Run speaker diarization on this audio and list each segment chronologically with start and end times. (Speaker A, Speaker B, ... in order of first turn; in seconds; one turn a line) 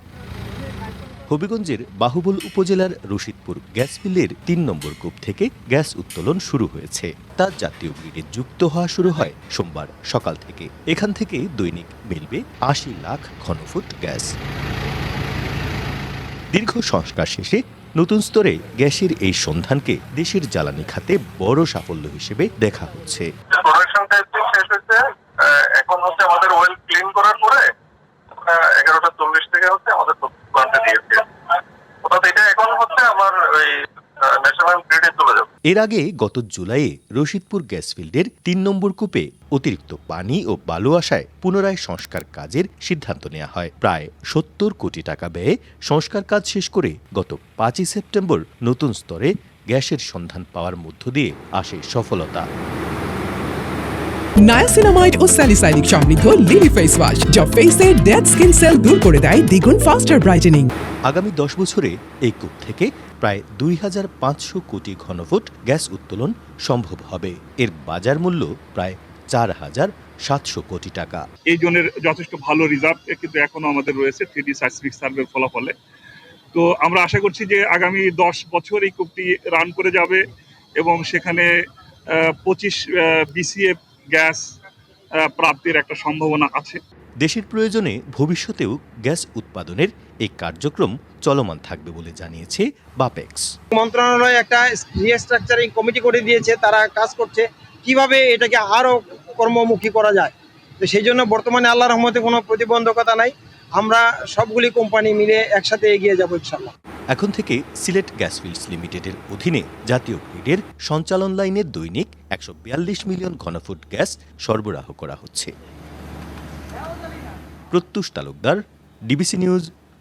Speaker A: 1.3-14.3
Speaker A: 16.5-23.3
Speaker B: 23.5-27.6
Speaker B: 28.3-31.2
Speaker B: 32.0-35.5
Speaker A: 35.7-52.5
Speaker C: 54.4-60.7
Speaker A: 61.1-71.2
Speaker D: 71.5-75.7
Speaker D: 76.5-80.2
Speaker D: 80.8-81.5
Speaker D: 82.1-84.5
Speaker D: 85.2-86.8
Speaker A: 87.2-93.5
Speaker E: 93.7-106.7
Speaker A: 107.1-115.5
Speaker A: 117.7-119.7